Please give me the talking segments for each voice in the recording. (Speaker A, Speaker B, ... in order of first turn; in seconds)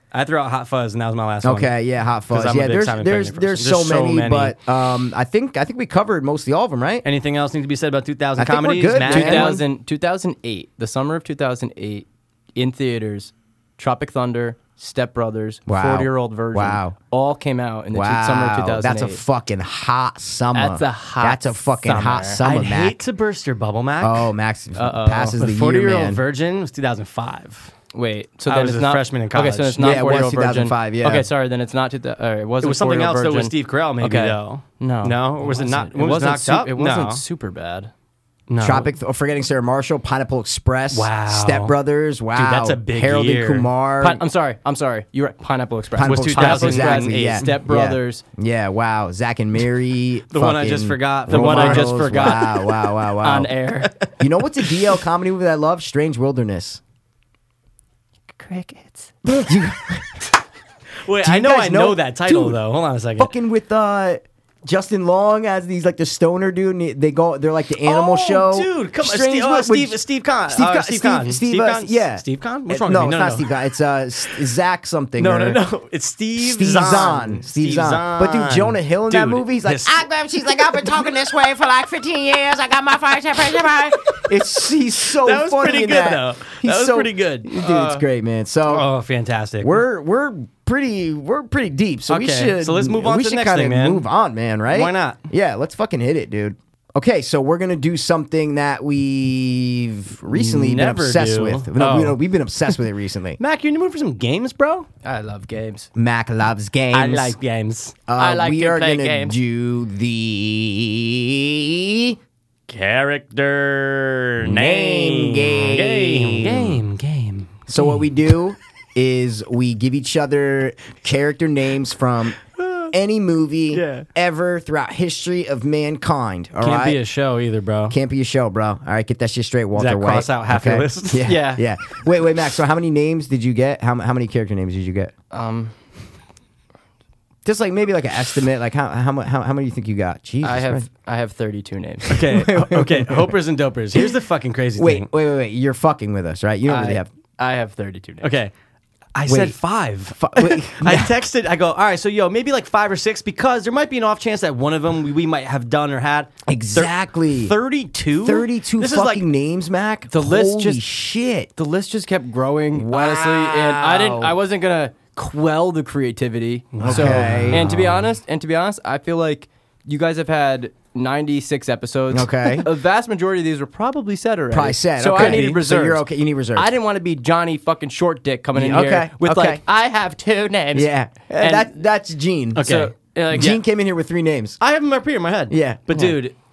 Speaker A: 0.1-1.7, 2.3-4.6, 7.0-9.6, 22.4-24.3, 25.4-27.7, 28.5-30.0, 32.6-37.2, 38.5-38.9, 40.9-41.8, 42.3-43.7, 46.0-47.5, 50.3-52.5, 61.0-63.3, 67.8-73.5, 75.2-80.1, 85.0-88.0, 88.7-89.8, 92.1-94.1, 94.7-95.2, 100.3-102.2, 103.4-104.9, 106.9-108.0, 112.7-118.1, 122.6-122.9, 123.7-124.0, 126.6-128.0, 129.8-131.3, 142.1-145.1, 148.2-148.5, 149.2-159.3, 166.7-167.8, 175.1-175.6, 182.6-183.6, 184.6-186.3
Speaker B: 1.4-7.0, 8.4-9.6, 15.7-16.9, 17.9-23.0, 24.0-26.2, 29.8-31.3, 38.6-44.2, 46.0-56.8, 59.2-60.2, 61.2-62.6, 63.2-75.6, 76.4-81.3, 83.6-88.9, 89.6-103.4, 106.0-107.4, 108.1-112.2, 114.4-116.8, 117.7-122.4, 122.9-127.0, 127.9-135.1, 137.4-140.9, 142.1-143.3, 144.8-147.1, 149.3-149.6, 150.1-151.1, 156.5-157.5, 158.2-161.5, 162.7-164.4, 166.8-168.0, 172.1-172.7, 174.5-176.7, 178.5-179.6, 180.7-182.7, 183.3-184.6, 185.5-185.9
Speaker C: 9.0-19.2, 20.5-22.4, 24.8-25.4, 27.9-37.9, 44.0-48.2, 51.3-54.8, 58.3-59.1, 105.0-105.9, 108.2-109.4, 131.2-131.7, 135.3-135.7, 140.4-142.3, 146.7-148.3, 160.1-160.8, 161.6-181.8, 182.6-183.6
Speaker D: 79.9-84.2